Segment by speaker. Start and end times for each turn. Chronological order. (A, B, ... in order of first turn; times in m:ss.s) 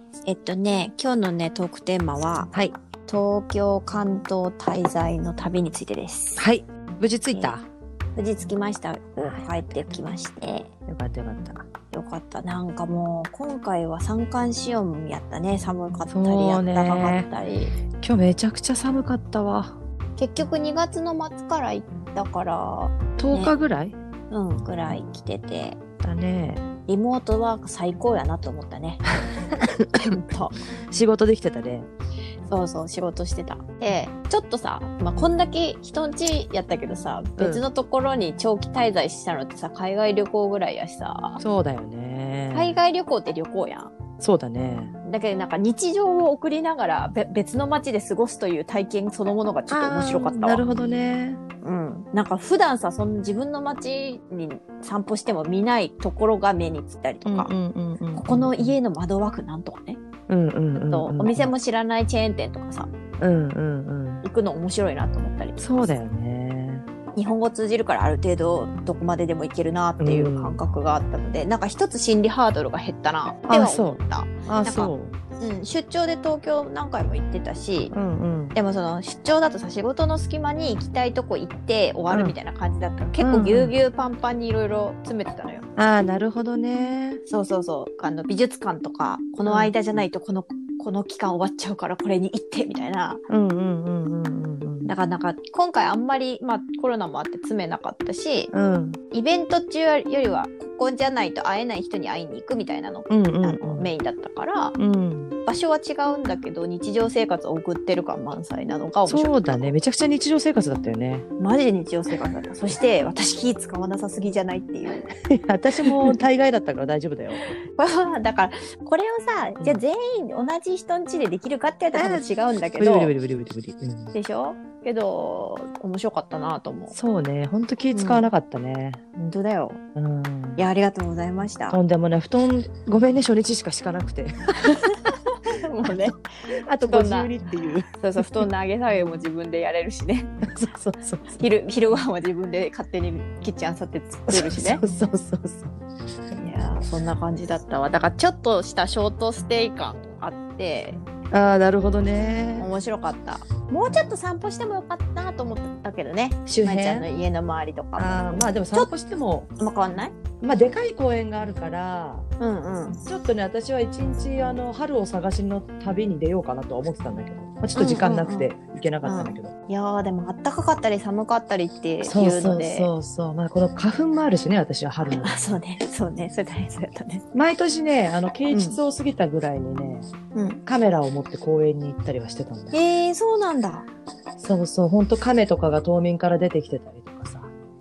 0:00.2-0:06.4 A
0:06.4-0:07.6 B
0:08.1-0:10.7 A
0:10.9-0:11.7 B
0:11.9-0:17.8 A
0:16.1-0:17.3 B
0:18.0-0:19.8 B
0:20.2-0:23.5 A
0:23.2-0:24.0 B
0:24.3-0:25.8 A
0:26.0-0:26.6 B
0:26.9-0:29.0 A
0:29.5-0:30.0 B
0:30.0-0:30.6 A
0:30.9-0:31.9 B
0:32.5-0:41.4 A
0:37.4-0:37.6 B
0:41.4-0:42.8 B
0:42.5-0:43.9 A
0:44.2-0:44.9 B
0:45.0-0:50.6 A
0:49.7-0:51.4 B
0:51.6-0:57.5 A
0:57.2-0:58.8 B
0:58.2-1:00.0 A
1:00.3-1:01.5 B
1:00.9-1:02.9 A
1:03.2-1:04.2 B
1:04.2-1:05.9 A
1:05.6-1:06.8 B
1:07.1-1:17.9 A
1:10.0-1:10.6 B
1:13.5-1:15.2 B
1:17.9-1:18.6 B
1:18.5-1:25.7 A
1:22.1-1:22.4 B
1:23.2-1:23.8 B
1:25.8-1:27.2 B
1:27.2-1:33.2 A
1:29.4-1:30.0 B
1:33.3-1:34.9 B
1:34.8-1:38.5 A
1:38.5-1:39.0 B
1:39.1-1:44.8 A
1:43.1-1:43.9 B
1:44.8-1:45.4 B
1:45.4-1:49.6 A
1:49.1-1:51.2 B
1:51.4-1:55.1 A
1:55.3-1:57.5 B
1:55.8-1:56.2 A
1:57.4-2:03.1 A
2:01.9-2:04.1 B
2:04.1-2:06.9 A
2:06.9-2:09.0 B
2:07.9-2:08.3 A
2:09.2-2:09.8 A
2:09.9-2:10.6 B
2:10.6-2:11.8 A
2:11.7-2:14.6 B
2:14.6-2:16.3 A
2:16.6-2:18.4 B
2:16.8-2:17.3 A
2:17.9-2:20.3 A
2:20.4-2:21.4 B
2:21.3-2:24.8 A
2:24.3-2:25.8 B
2:26.3-2:31.0 A
2:31.3-2:32.7 B
2:32.6-2:38.9 A
2:36.5-2:37.1 B
2:38.0-2:39.5 B
2:39.6-2:40.2 A
2:40.4-2:42.3 B
2:42.4-2:43.0 A
2:43.0-2:49.5 B
2:47.7-2:48.5 A
2:49.0-2:52.9 A
2:52.0-2:55.3 B
2:55.0-2:57.2 A
2:57.3-3:00.1 B
2:58.5-2:58.8 A
3:00.3-3:00.6 A
3:00.6-3:02.8 B
3:02.7-3:03.9 A
3:04.4-3:07.5 B